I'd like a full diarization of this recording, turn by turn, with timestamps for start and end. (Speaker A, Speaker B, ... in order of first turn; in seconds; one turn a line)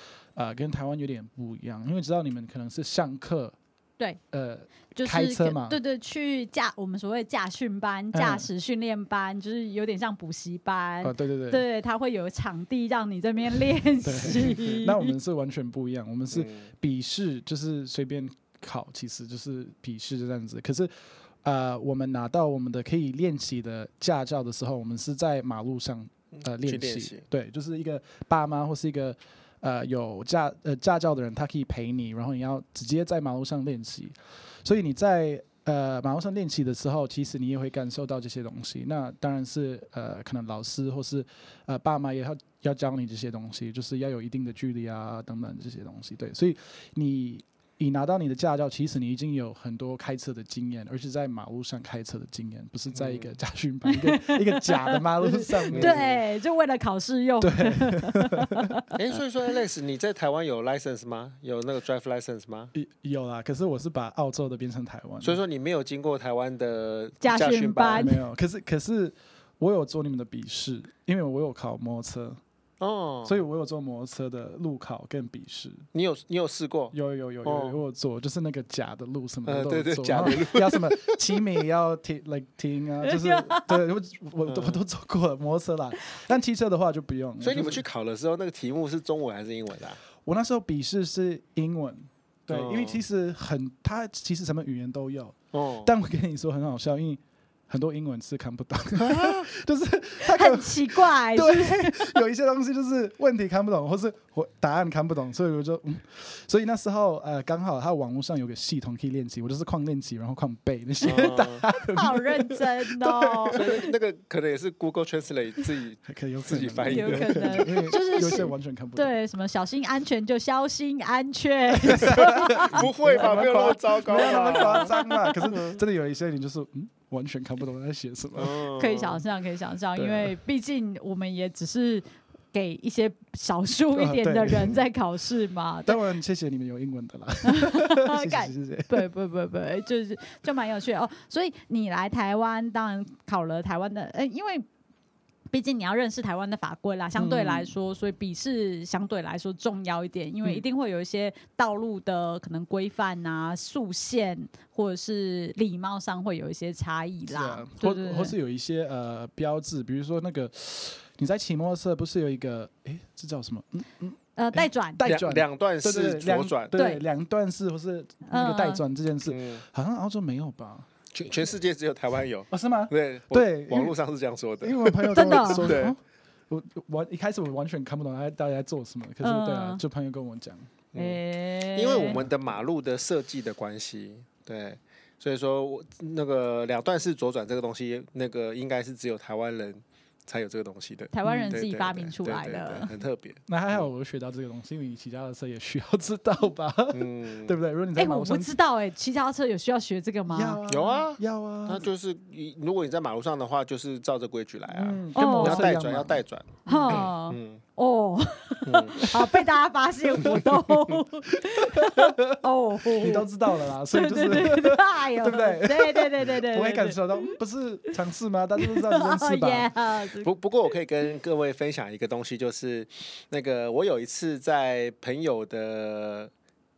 Speaker A: 0.3-3.6
Speaker A: 4.3-5.8
Speaker B: 5.0-15.1
Speaker A: 8.1-8.5
Speaker A: 11.0-11.7
Speaker A: 14.0-56.1
Speaker C: 16.3-16.7
Speaker C: 26.4-27.2
Speaker C: 52.9-53.3
Speaker B: 53.9-58.9
Speaker C: 55.7-56.2
Speaker A: 57.4-58.7
Speaker C: 59.0-62.7
Speaker A: 62.8-65.4
Speaker C: 65.2-68.1
Speaker B: 67.2-68.1
Speaker A: 68.0-72.4
Speaker C: 72.8-73.4
Speaker A: 73.2-75.9
Speaker C: 75.9-77.8
Speaker A: 76.9-87.8
Speaker C: 79.5-81.2
Speaker B: 83.0-83.8
Speaker C: 84.5-84.8
Speaker C: 87.4-90.0
Speaker A: 90.2-113.8
Speaker C: 92.5-93.0
Speaker C: 95.5-95.9
Speaker C: 99.0-99.5
Speaker B: 100.2-102.2
Speaker C: 111.0-111.7
Speaker B: 111.7-113.7
Speaker C: 113.5-118.2
Speaker A: 116.1-119.1
Speaker B: 116.9-125.5
Speaker A: 121.7-128.6
Speaker C: 122.1-124.9
Speaker C: 125.5-125.8
Speaker C: 128.4-129.2
Speaker B: 128.8-136.0
Speaker A: 130.0-130.3
Speaker A: 133.9-134.8
Speaker A: 135.9-139.1
Speaker B: 137.4-144.7
Speaker B: 145.5-158.3
Speaker A: 147.2-147.7
Speaker A: 157.3-170.9
Speaker B: 164.4-165.0
Speaker C: 165.0-166.8
Speaker B: 166.8-167.0
Speaker B: 168.3-168.8
Speaker C: 169.3-169.6
Speaker C: 171.1-176.0
Speaker A: 172.5-174.0
Speaker A: 174.6-180.7
Speaker B: 175.1-175.8
Speaker B: 179.2-179.8
Speaker C: 180.9-181.2
Speaker B: 180.9-182.2
Speaker C: 181.7-193.8
Speaker A: 182.0-182.3
Speaker B: 191.1-192.9
Speaker A: 191.2-191.6
Speaker A: 193.5-198.6
Speaker C: 196.9-197.6
Speaker B: 198.0-200.6
Speaker A: 200.3-201.9
Speaker C: 200.7-207.6
Speaker A: 204.7-207.1
Speaker B: 205.2-205.7
Speaker B: 206.7-213.3
Speaker C: 208.7-209.0
Speaker A: 209.0-209.3
Speaker A: 210.2-210.7
Speaker A: 211.8-212.1
Speaker A: 213.0-219.7
Speaker B: 213.9-217.3
Speaker B: 218.6-220.3
Speaker C: 220.2-226.3